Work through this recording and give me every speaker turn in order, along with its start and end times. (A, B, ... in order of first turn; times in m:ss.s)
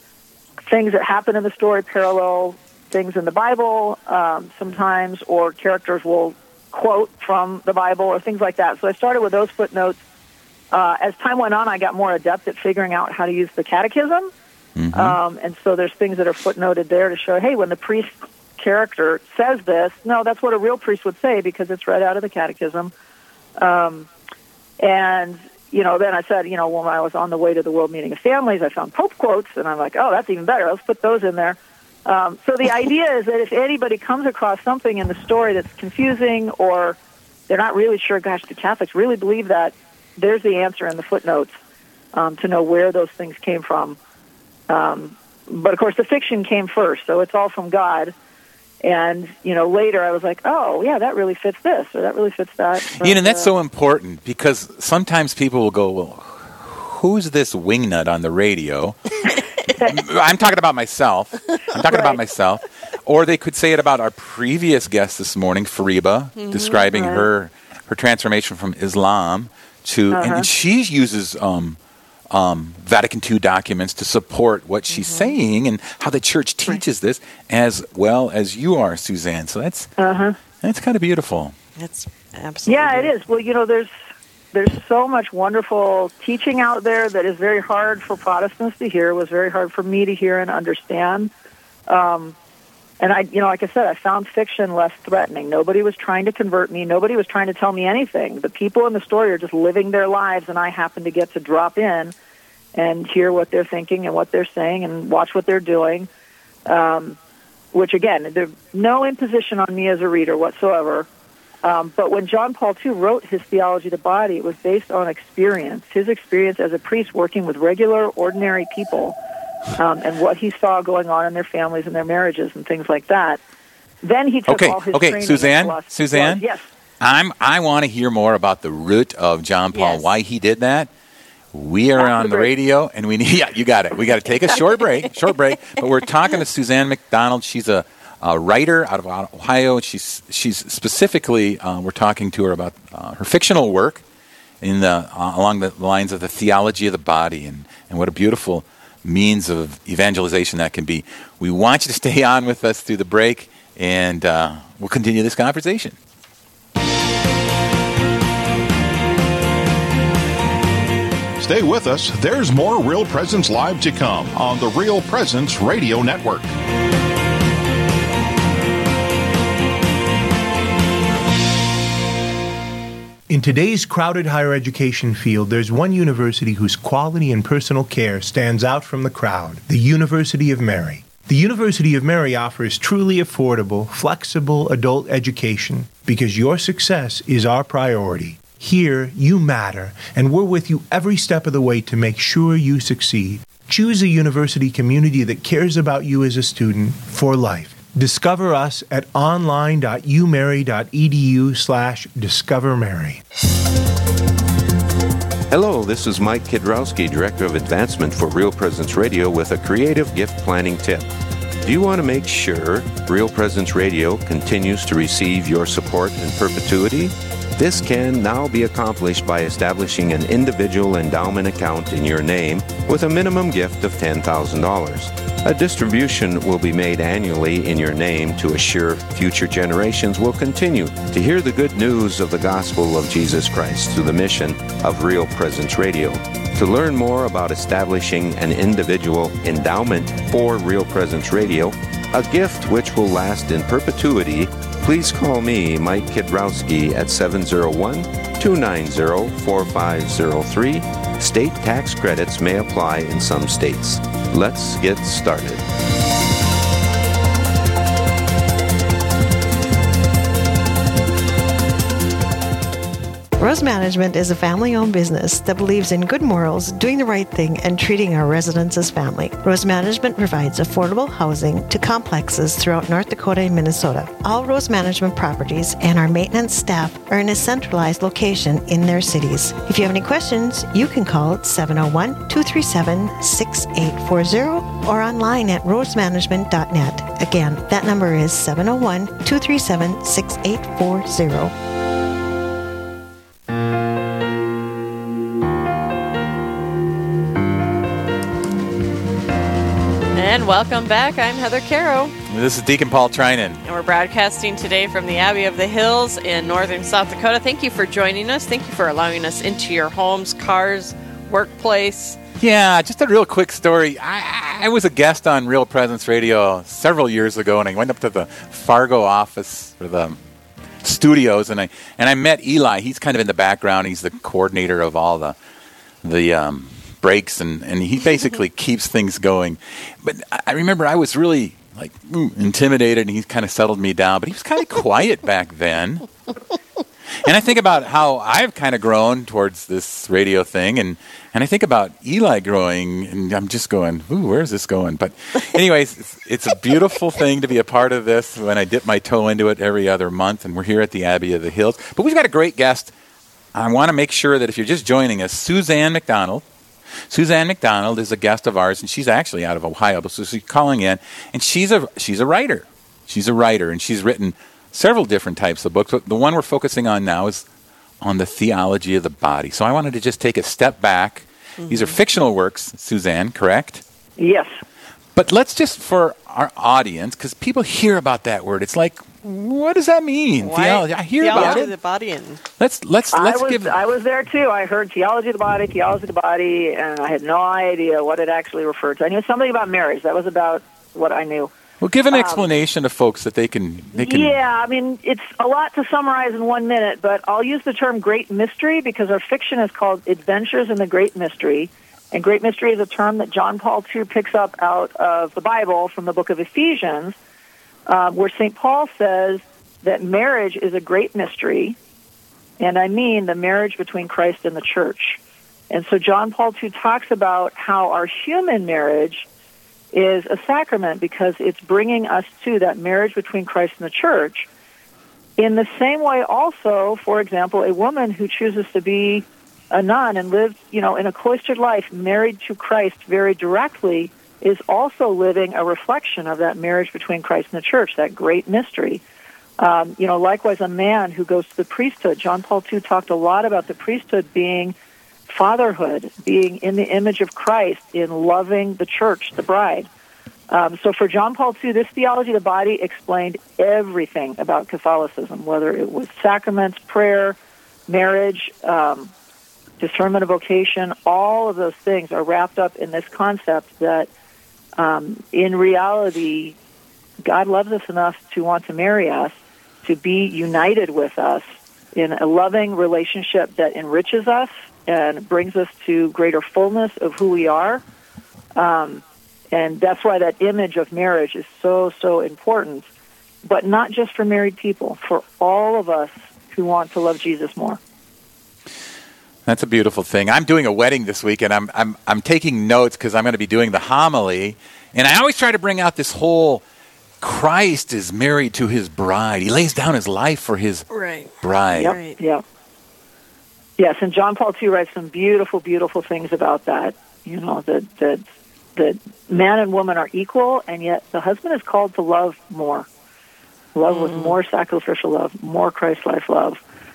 0:00.7-0:10.0 A
0:10.7-0:14.3 A
0:14.8-0:15.2 B
0:14.9-0:22.9 A
0:23.6-0:24.1 A
0:24.8-0:37.0 A
0:37.5-0:41.5 A
0:42.1-0:44.0 A
0:44.7-0:48.1 A
0:48.8-0:53.5 A
0:53.0-0:59.1 B
0:59.7-1:11.8 B
1:01.9-1:02.2 A
1:06.4-1:07.0 C
1:06.9-1:07.2 A
1:10.1-1:10.5 A
1:12.3-1:19.9 B
1:14.9-1:15.3 C
1:20.0-1:20.4 A
1:20.6-1:21.5 B
1:21.8-1:23.1 C
1:22.6-1:23.9 A
1:24.5-1:31.3 A
1:31.9-1:32.3 A
1:33.0-1:42.1 A
1:42.7-1:46.1 A
1:46.7-1:47.2 A
1:47.7-1:51.1 A
1:51.6-1:59.2 A
1:59.8-2:03.4 A
2:04.0-2:06.6 A
2:04.5-2:06.4 B
2:07.0-2:10.9 B
2:09.7-2:10.1 C
2:11.5-2:24.0 B
2:12.2-2:12.5 A
2:24.6-2:36.0 B
2:41.4-2:46.5 D
2:53.3-3:23.2 E
3:25.5-3:31.1 F
3:31.6-4:15.6 F
4:23.4-4:51.5 G
5:00.1-5:02.1 C
5:02.3-5:03.6 B
5:03.6-5:12.2 C
5:12.4-5:20.2 B
5:20.8-5:25.4 B
5:26.0-5:36.1 B
5:37.2-5:52.9 B
5:53.5-5:56.4 B
5:57.1-6:07.4 B
6:08.0-6:13.8 B
6:11.6-6:12.0 C
6:14.2-6:14.5 A
6:15.1-6:21.7 B
6:20.4-6:22.4 C
6:21.3-6:21.6 A
6:22.6-6:23.8 B
6:23.1-6:31.5 A
6:31.8-6:34.4 B
6:32.1-6:32.4 A
6:33.9-6:47.2 A
6:47.9-6:51.8 A
6:52.6-6:55.2 A
6:55.7-6:59.2 A
6:59.9-7:04.5 A
7:05.4-7:19.0 A
7:19.6-7:24.7 A
7:25.3-7:29.9 A
7:30.5-7:37.4 A
7:37.9-7:39.1 A
7:39.8-7:44.1 A
7:44.8-7:46.6 A
7:47.2-7:57.8 A
7:58.6-8:02.8 A
8:03.4-8:07.8 A
8:09.4-8:16.6 B
8:17.2-8:20.9 B
8:20.9-8:22.2 C
8:21.4-8:21.9 B
8:21.8-8:22.4 A
8:23.8-8:28.2 A
8:28.8-8:32.8 A
8:33.7-8:36.6 A
8:33.9-8:34.4 C